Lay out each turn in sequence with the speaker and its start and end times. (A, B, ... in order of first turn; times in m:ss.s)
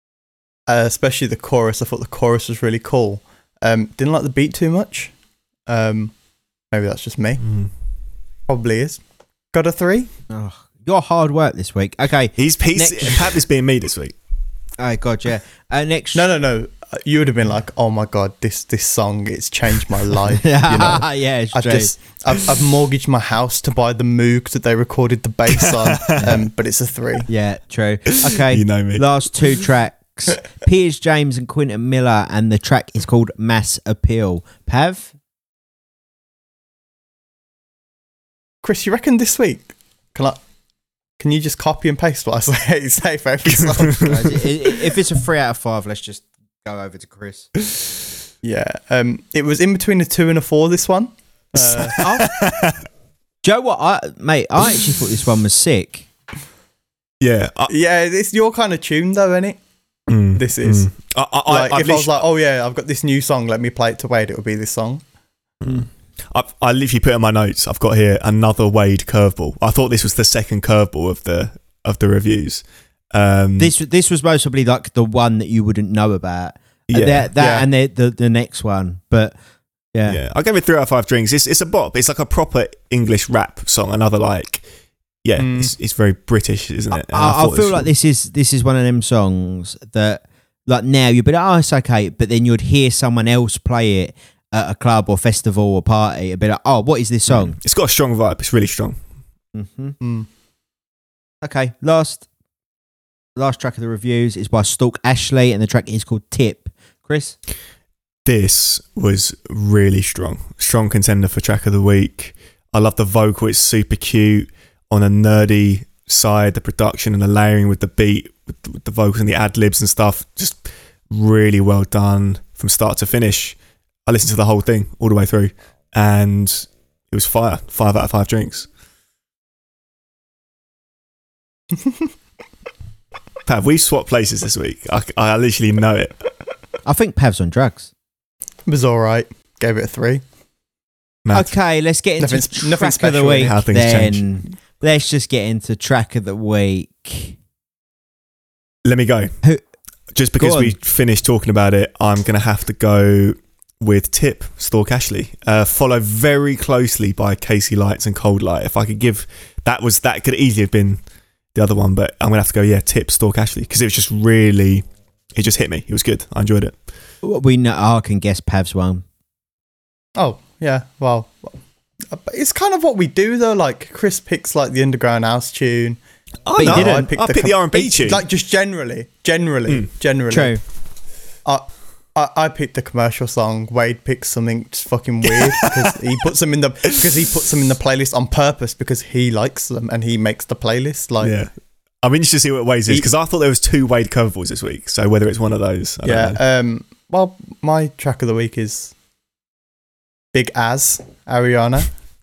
0:00.7-0:05.1 A
0:05.7-0:06.1 A
0:06.7-0:07.4 A
0:07.4-0:07.7 B
0:08.5-0:09.0 A
0:09.5-0:10.1 A
0:10.3-0:13.4 C
0:12.4-0:14.1 B
0:14.8-0:16.3 C
0:16.1-0:27.3 A
0:20.3-0:21.9 C
0:25.5-0:26.3 B
0:27.3-0:35.1 C
0:28.1-0:29.2 B
0:38.6-0:40.4 A
0:41.2-0:44.4 A
0:43.7-0:44.4 B
0:44.0-0:47.5 C
0:48.4-0:52.1 A
0:51.8-0:52.8 B
0:52.0-0:52.3 C
0:53.4-0:56.1 C
0:57.2-0:57.7 B
0:57.7-0:59.6 A
1:00.1-1:02.2 B
1:00.3-1:00.9 A
1:01.5-1:05.0 A
1:05.6-1:13.7 B
1:13.6-1:19.3 C
1:16.9-1:17.3 B
1:17.4-1:17.7 A
1:19.9-1:20.2 C
1:20.1-1:24.6 B
1:25.2-1:27.9 B
1:25.4-1:25.7 A
1:27.0-1:37.6 C
1:37.3-1:39.0 B
1:39.5-1:40.0 C
1:40.0-1:40.3 A
1:41.4-1:42.2 C
1:43.4-1:47.4 C
1:48.2-2:08.7 B
2:13.4-2:16.1 B
2:16.8-2:17.9 C
2:18.7-2:20.2 A
2:21.2-2:21.5 B
2:21.3-2:27.4 C
2:22.2-2:23.5 A
2:23.4-2:24.4 B
2:28.8-2:29.4 B
2:30.1-2:41.0 B
2:30.4-2:30.7 C
2:41.5-2:46.7 B
2:47.2-2:49.0 C
2:50.2-2:51.6 A
2:52.1-2:56.0 A
2:56.4-2:58.2 B
2:56.6-2:57.1 C
2:56.6-3:00.6 A
3:00.3-3:00.6 C
3:01.4-3:11.3 A
3:11.2-3:11.5 B
3:12.0-3:16.4 B
3:16.0-3:18.9 A
3:20.3-3:21.9 A